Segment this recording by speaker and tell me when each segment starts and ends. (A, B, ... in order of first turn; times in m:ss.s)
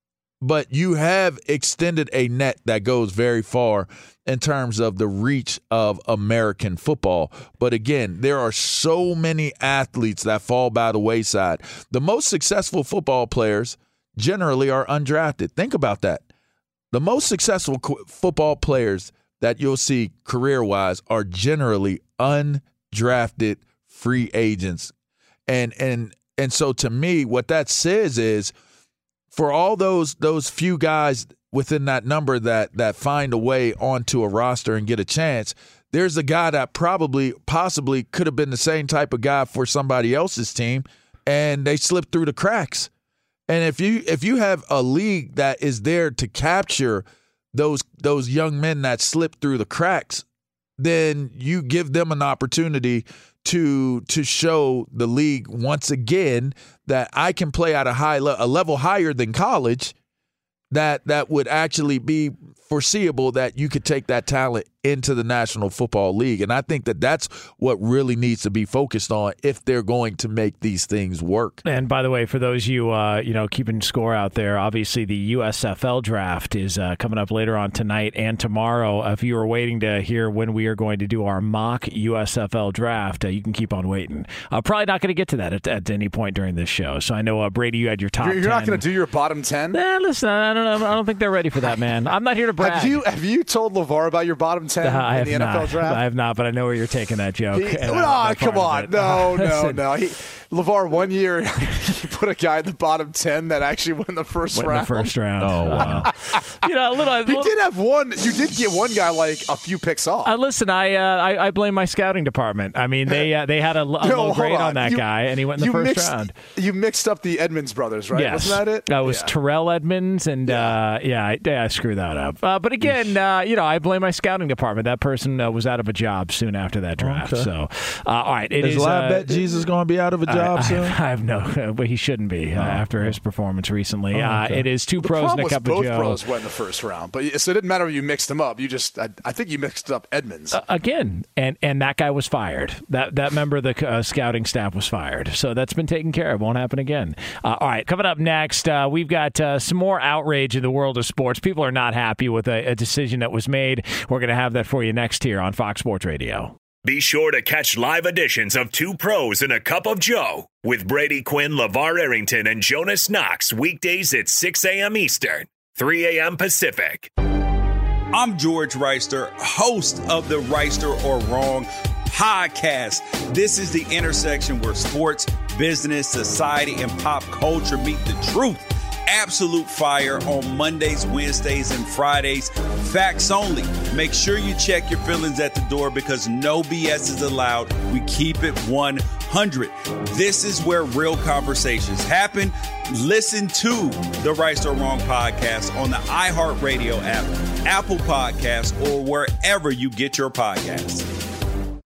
0:00.4-0:16.2 A
0:16.9-0:24.9 A
0:25.5-0:28.5 A
0:29.3-0:42.9 A
0:43.5-0:50.2 A
0:50.8-0:59.9 A
1:00.7-1:11.6 A
1:11.6-1:28.8 B
1:28.2-1:29.8 C
1:29.7-1:33.0 B
1:32.6-1:36.0 C
1:34.8-1:39.8 B
1:37.5-1:46.6 C
1:44.5-1:47.5 B
1:45.4-1:46.1 A
1:47.2-1:50.3 C
1:50.2-1:56.3 B
1:54.0-1:59.3 C
1:58.1-2:09.6 B
2:00.5-2:00.7 C
2:02.8-2:03.1 A
2:07.0-2:07.5 A
2:08.6-2:11.0 A
2:10.3-2:16.2 B
2:12.6-2:13.1 A
2:14.1-2:14.7 A
2:15.0-2:20.6 C
2:20.5-2:36.5 B
2:36.8-2:47.1 D
2:48.1-3:21.1 E